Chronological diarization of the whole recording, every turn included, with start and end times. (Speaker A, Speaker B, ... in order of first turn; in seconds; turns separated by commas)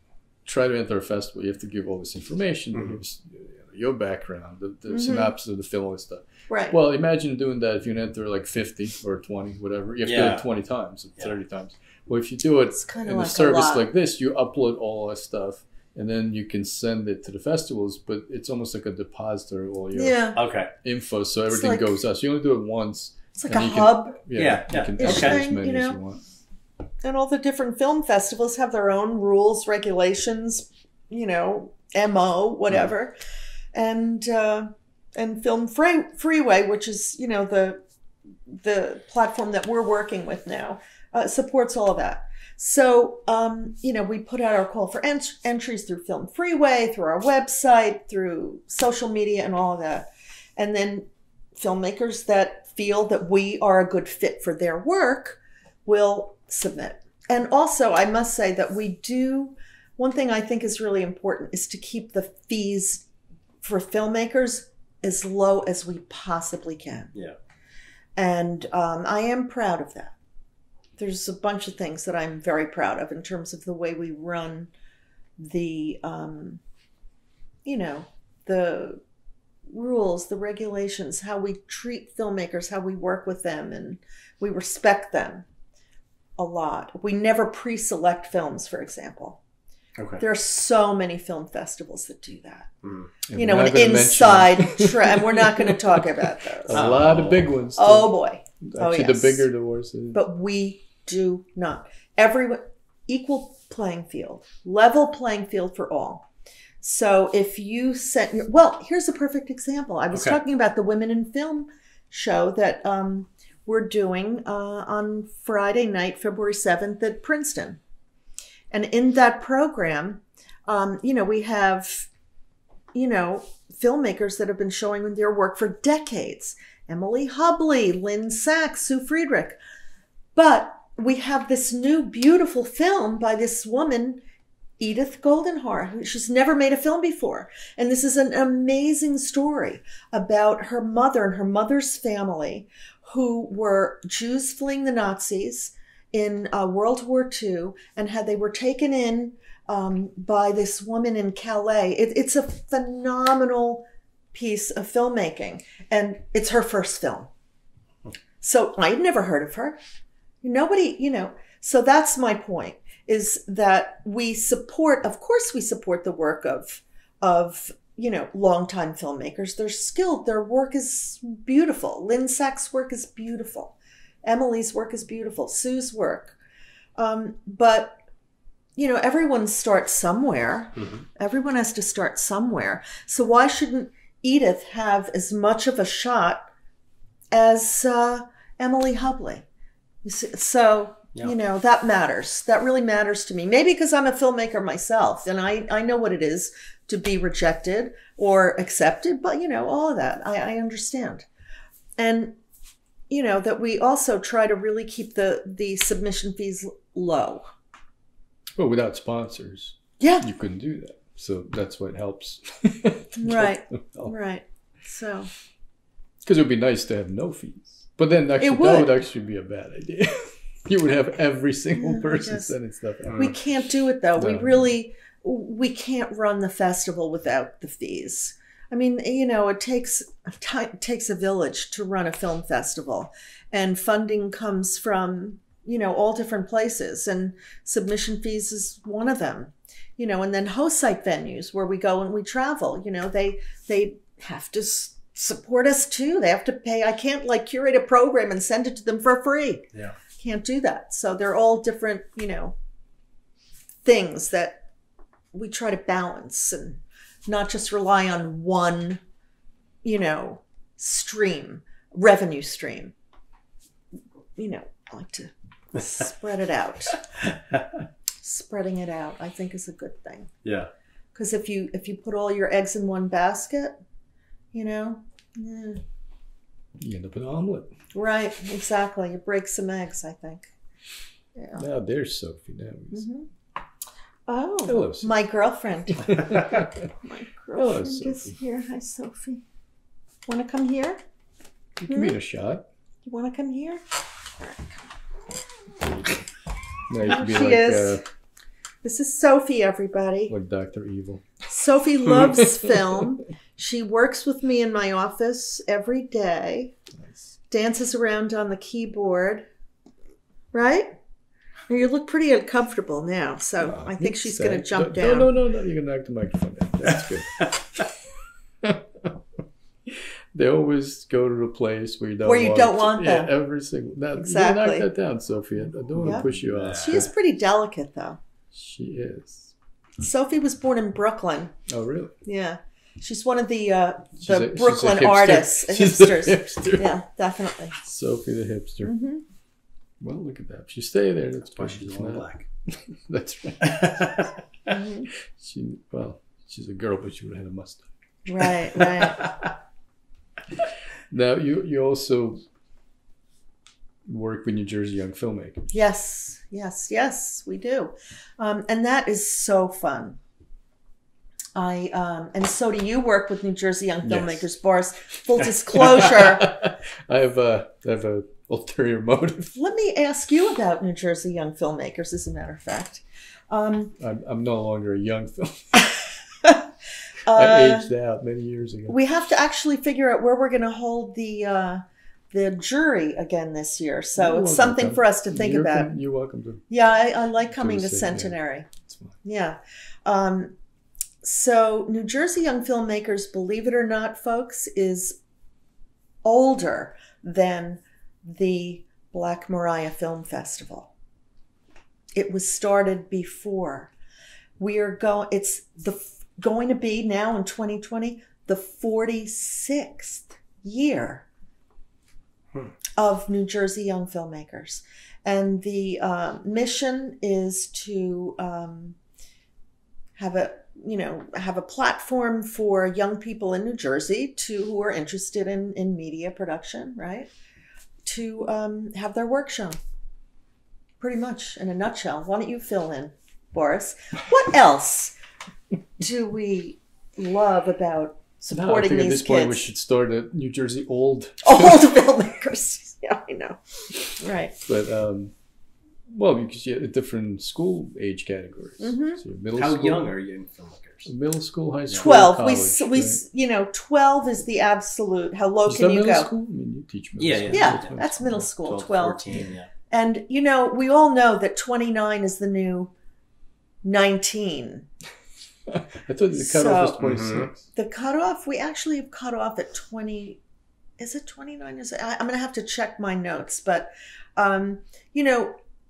Speaker A: 0.4-20.3, Speaker B: 4.9-5.3, Speaker B: 6.5-6.8, Speaker C: 10.0-10.4, Speaker B: 12.7-13.8, Speaker B: 19.9-20.4, Speaker C: 20.3-20.7, Speaker A: 20.8-26.2, Speaker B: 21.5-21.9, Speaker B: 23.4-24.2, Speaker C: 24.3-25.5, Speaker B: 25.0-26.0, Speaker B: 27.0-33.1, Speaker B: 33.7-37.8, Speaker B: 38.5-63.0, Speaker B: 63.6-67.1, Speaker B: 68.2-70.1, Speaker B: 71.0-74.7, Speaker B: 75.4-76.6, Speaker B: 77.6-79.0, Speaker B: 79.7-85.5, Speaker B: 86.4-89.4, Speaker C: 90.0-90.2, Speaker B: 90.2-92.7, Speaker C: 92.8-93.1, Speaker A: 93.3-100.2, Speaker B: 93.3-97.1, Speaker C: 96.7-97.5, Speaker B: 97.8-99.5, Speaker B: 100.1-106.3, Speaker B: 106.8-117.8, Speaker C: 110.1-110.4, Speaker B: 118.7-122.1, Speaker B: 122.9-129.6, Speaker B: 130.3-134.2, Speaker B: 134.8-157.3, Speaker B: 158.4-159.8, Speaker B: 160.4-176.4, Speaker B: 177.0-178.0, Speaker B: 178.8-186.5, Speaker C: 180.8-181.0, Speaker B: 187.3-189.4, Speaker B: 190.0-201.2, Speaker B: 202.0-202.4, Speaker B: 203.1-207.5, Speaker A: 208.6-214.1, Speaker B: 210.0-210.3, Speaker B: 213.2-215.3, Speaker A: 216.2-223.4, Speaker B: 218.4-218.9, Speaker B: 221.7-222.5, Speaker C: 223.1-223.3, Speaker B: 223.2-249.7, Speaker A: 224.2-224.7, Speaker B: 250.2-252.5, Speaker B: 253.8-254.6, Speaker B: 255.3-259.0, Speaker B: 259.8-262.9, Speaker B: 264.4-267.0, Speaker B: 268.2-270.3, Speaker C: 270.4-270.7, Speaker B: 271.1-273.8, Speaker B: 274.5-275.8, Speaker A: 276.8-277.7, Speaker B: 277.9-280.5, Speaker B: 281.4-281.6, Speaker A: 281.6-283.0, Speaker B: 282.9-283.3, Speaker B: 284.3-289.4, Speaker A: 284.6-285.1, Speaker A: 286.0-286.9, Speaker A: 287.6-288.3, Speaker B: 290.2-291.0, Speaker A: 291.8-292.7, Speaker B: 291.9-292.1, Speaker B: 293.0-293.8, Speaker B: 294.4-294.8, Speaker A: 296.9-298.0, Speaker B: 297.1-298.0, Speaker B: 298.8-300.3, Speaker A: 300.3-301.2, Speaker B: 301.5-306.7, Speaker A: 302.1-302.8, Speaker B: 307.5-309.4, Speaker B: 310.5-310.9, Speaker B: 311.7-315.3, Speaker A: 313.6-317.9, Speaker A: 318.6-319.1, Speaker A: 319.9-327.1, Speaker B: 322.2-323.3, Speaker B: 324.1-324.9, Speaker C: 326.0-327.1, Speaker B: 326.0-328.2, Speaker A: 328.5-329.5, Speaker B: 330.0-331.5, Speaker A: 331.7-332.1, Speaker B: 332.2-337.8, Speaker A: 334.2-336.9, Speaker A: 337.8-338.9, Speaker B: 338.8-339.2, Speaker A: 340.0-344.3, Speaker C: 341.6-342.4, Speaker C: 343.6-344.3, Speaker B: 344.7-345.1, Speaker A: 345.2-347.9, Speaker B: 348.2-349.3, Speaker A: 351.1-352.4, Speaker A: 354.1-355.7, Speaker B: 355.7-360.2, Speaker B: 361.5-366.6, Speaker A: 364.0-364.5, Speaker A: 365.7-369.5, Speaker B: 369.5-373.9, Speaker A: 374.0-376.0, Speaker B: 377.2-377.9, Speaker A: 377.3-378.9, Speaker B: 378.9-385.9, Speaker A: 384.2-386.6, Speaker B: 386.7-388.7, Speaker A: 387.6-389.1, Speaker B: 389.2-390.5, Speaker B: 391.2-395.2, Speaker B: 396.2-400.9, Speaker B: 402.1-403.9, Speaker B: 404.6-411.2, Speaker B: 413.0-419.0, Speaker B: 420.2-427.3, Speaker B: 428.0-429.8, Speaker B: 431.0-435.1, Speaker B: 436.0-439.7, Speaker A: 438.5-441.9, Speaker B: 441.4-444.5, Speaker A: 444.6-445.3, Speaker A: 446.1-450.1, Speaker B: 448.8-449.2, Speaker C: 449.6-451.1, Speaker A: 451.1-453.2, Speaker B: 452.0-456.3, Speaker A: 455.7-458.5, Speaker C: 457.2-457.9, Speaker B: 457.5-462.9, Speaker C: 458.6-459.7, Speaker B: 463.8-464.9, Speaker A: 465.7-467.6, Speaker B: 466.3-470.4, Speaker C: 467.0-467.5, Speaker B: 471.0-475.5